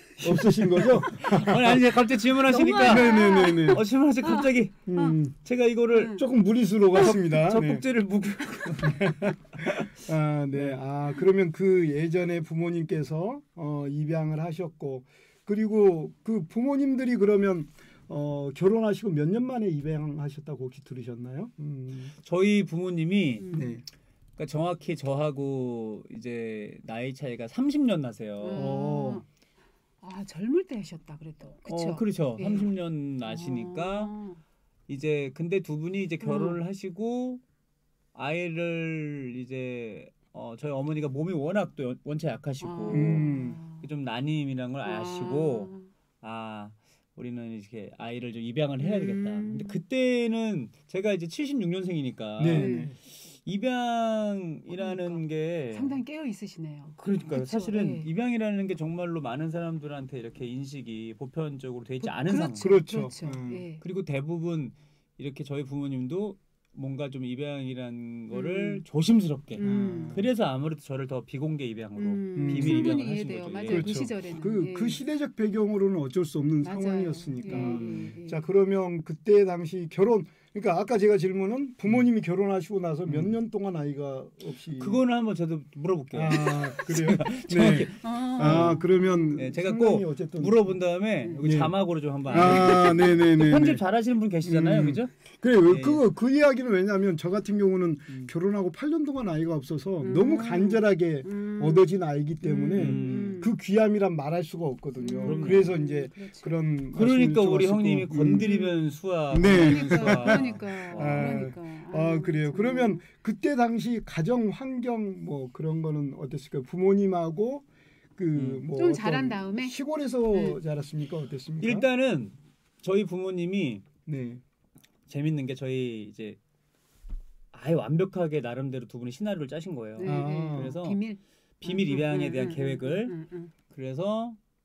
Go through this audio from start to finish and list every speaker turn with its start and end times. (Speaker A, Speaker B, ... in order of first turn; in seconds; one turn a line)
Speaker A: 0.2-1.9
Speaker B: 0.2-6.2
Speaker A: 2.5-3.8
Speaker C: 2.5-5.2
Speaker A: 4.9-5.4
Speaker C: 5.9-6.2
Speaker A: 6.1-7.8
Speaker B: 6.9-9.9
Speaker A: 8.8-22.1
Speaker B: 10.5-10.8
Speaker B: 22.1-23.6
Speaker C: 23.4-23.8
Speaker A: 23.5-23.8
Speaker B: 24.4-28.8
Speaker C: 28.4-29.2
Speaker A: 28.5-29.2
Speaker C: 30.0-34.4
Speaker B: 31.7-34.1
Speaker B: 34.9-37.4
Speaker C: 36.2-36.6
Speaker B: 38.1-56.0
Speaker C: 42.6-43.9
Speaker A: 42.9-43.6
Speaker C: 44.8-45.9
Speaker C: 48.8-49.8
Speaker A: 52.4-53.0
Speaker C: 52.5-52.9
Speaker C: 54.7-58.1
Speaker B: 56.9-62.7
Speaker C: 62.0-63.8
Speaker A: 62.6-63.6
Speaker B: 63.8-74.0
Speaker C: 68.3-68.8
Speaker C: 69.6-70.2
Speaker A: 69.6-70.2
Speaker C: 71.9-75.0
Speaker A: 72.3-72.9
Speaker A: 73.7-85.0
Speaker C: 76.6-78.5
Speaker B: 77.4-78.2
Speaker B: 83.0-83.4
Speaker B: 84.8-88.8
Speaker A: 86.1-90.8
Speaker C: 88.0-89.3
Speaker B: 89.3-95.1
Speaker A: 91.4-93.8
Speaker C: 92.3-93.2
Speaker A: 94.4-108.7
Speaker B: 95.6-96.0
Speaker C: 100.0-101.9
Speaker C: 102.4-103.5
Speaker B: 102.8-103.4
Speaker C: 105.0-106.6
Speaker B: 105.2-105.7
Speaker B: 106.9-111.4
Speaker A: 109.3-117.6
Speaker C: 109.5-113.0
Speaker A: 118.2-121.9
Speaker B: 118.3-118.7
Speaker C: 118.7-119.8
Speaker C: 120.3-120.6
Speaker B: 121.6-123.8
Speaker A: 124.0-124.4
Speaker B: 125.1-126.4
Speaker B: 127.5-131.0
Speaker C: 130.0-133.5
Speaker A: 130.0-130.8
Speaker B: 131.6-133.1
Speaker B: 133.7-134.4